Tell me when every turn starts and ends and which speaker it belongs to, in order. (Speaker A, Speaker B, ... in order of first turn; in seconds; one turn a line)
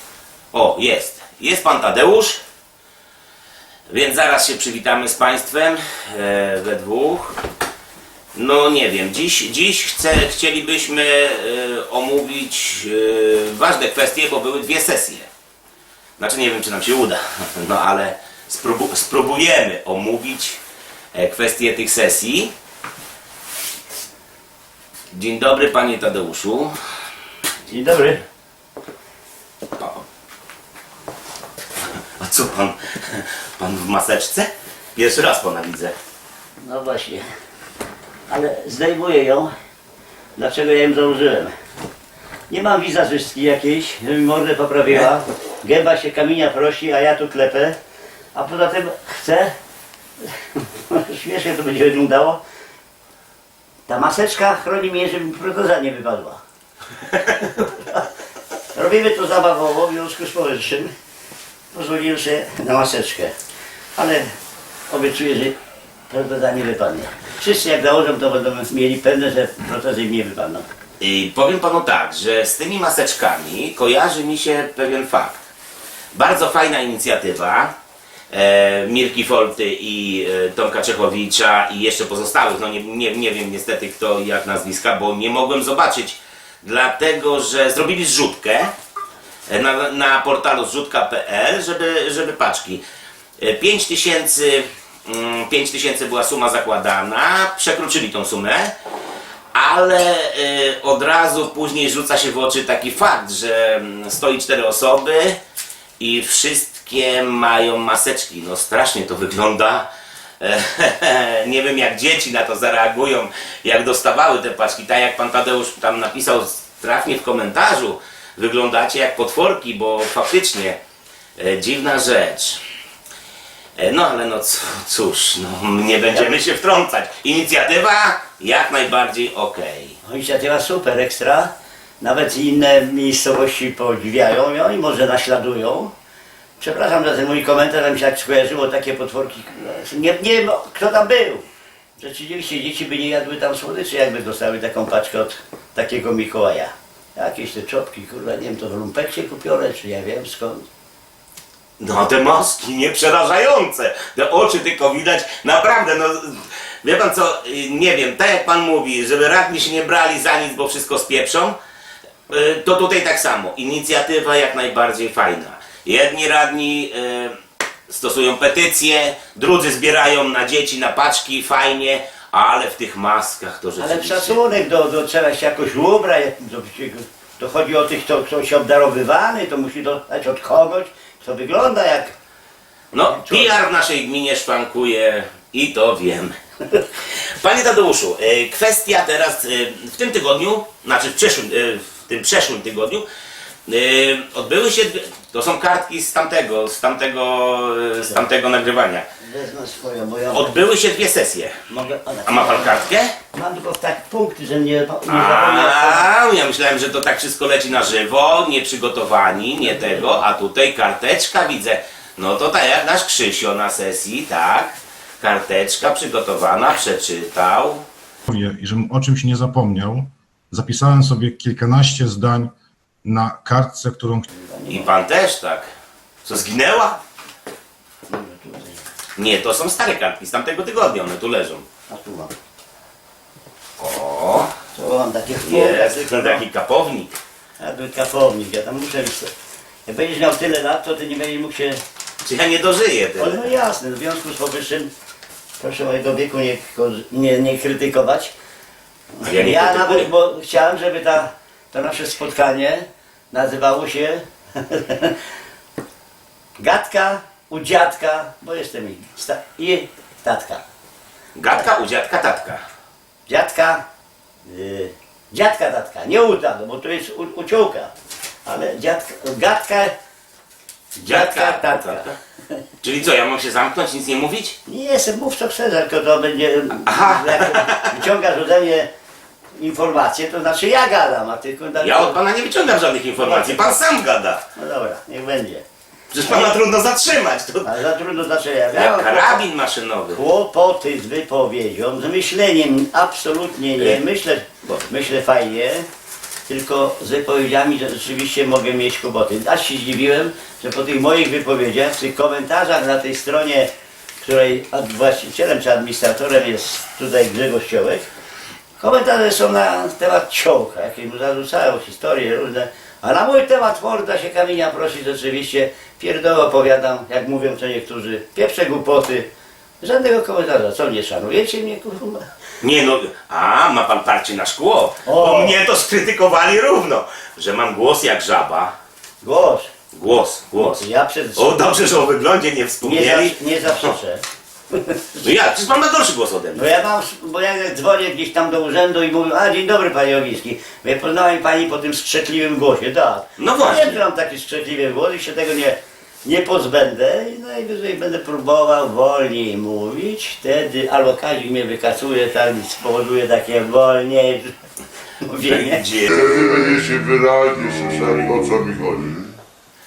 Speaker A: 0.5-2.4
Speaker A: 3.9-7.4
Speaker A: 8.3-15.3
Speaker A: 16.2-20.6
Speaker A: 21.1-22.5
Speaker A: 25.1-26.7
Speaker B: 27.7-28.2
Speaker A: 29.8-30.0
Speaker A: 31.9-35.9
Speaker B: 36.6-37.3
Speaker B: 38.3-39.5
Speaker B: 40.4-41.5
Speaker B: 42.5-47.8
Speaker B: 48.3-49.5
Speaker B: 50.5-52.4
Speaker B: 53.9-56.4
Speaker B: 57.6-58.0
Speaker B: 58.7-60.9
Speaker B: 61.7-63.3
Speaker B: 64.0-64.3
Speaker B: 64.9-65.5
Speaker B: 66.1-70.7
Speaker A: 71.0-75.5
Speaker A: 76.1-77.7
Speaker A: 78.3-88.7
Speaker A: 89.5-92.8
Speaker A: 93.4-98.7
Speaker A: 99.5-105.4
Speaker A: 106.0-109.9
Speaker A: 110.4-120.8
Speaker A: 121.4-122.6
Speaker A: 123.8-130.0
Speaker B: 130.0-135.9
Speaker B: 136.6-141.4
Speaker B: 142.0-150.7
Speaker A: 151.8-161.6
Speaker A: 162.3-167.4
Speaker A: 167.9-174.4
Speaker B: 173.8-182.1
Speaker A: 182.9-186.3
Speaker B: 183.1-183.6
Speaker A: 187.0-193.0
Speaker A: 193.7-199.1
Speaker B: 199.2-200.6
Speaker A: 200.3-201.6
Speaker B: 201.7-202.8
Speaker A: 202.2-203.1
Speaker B: 203.3-206.1
Speaker A: 205.1-217.8
Speaker B: 209.6-210.2
Speaker C: 218.3-222.5
Speaker C: 223.0-224.2
Speaker B: 224.3-224.9
Speaker A: 224.7-225.7
Speaker A: 226.2-227.0
Speaker B: 228.1-228.8
Speaker A: 229.2-231.7
Speaker B: 231.9-232.3
Speaker A: 233.8-234.5
Speaker B: 234.7-236.4
Speaker A: 235.4-237.2
Speaker B: 237.6-239.3
Speaker B: 239.8-241.8
Speaker A: 242.2-243.5
Speaker B: 243.2-244.9
Speaker B: 245.6-248.3
Speaker B: 249.2-255.1
Speaker A: 249.2-250.1
Speaker B: 256.6-260.6
Speaker A: 261.3-262.6
Speaker B: 263.3-263.8
Speaker B: 264.4-267.9
Speaker B: 268.4-269.9
Speaker B: 270.9-272.1
Speaker A: 271.0-272.1
Speaker A: 272.8-274.6
Speaker B: 274.6-278.9
Speaker A: 276.9-278.0
Speaker B: 279.6-282.2
Speaker A: 281.8-284.4
Speaker B: 283.2-283.7
Speaker B: 284.6-285.6
Speaker A: 286.1-287.7
Speaker B: 286.2-286.6
Speaker B: 287.6-289.4
Speaker A: 288.7-290.2
Speaker B: 290.1-295.9
Speaker B: 296.5-303.7
Speaker B: 304.2-308.1
Speaker B: 308.8-319.3
Speaker B: 319.8-322.2
Speaker A: 322.6-328.7
Speaker B: 325.0-325.6
Speaker B: 329.2-329.7
Speaker A: 329.9-333.9
Speaker B: 330.6-331.7
Speaker B: 332.8-335.2
Speaker A: 335.2-336.7
Speaker B: 336.5-354.5
Speaker A: 343.4-344.0
Speaker B: 355.2-355.9
Speaker A: 355.4-356.5
Speaker D: 356.1-359.2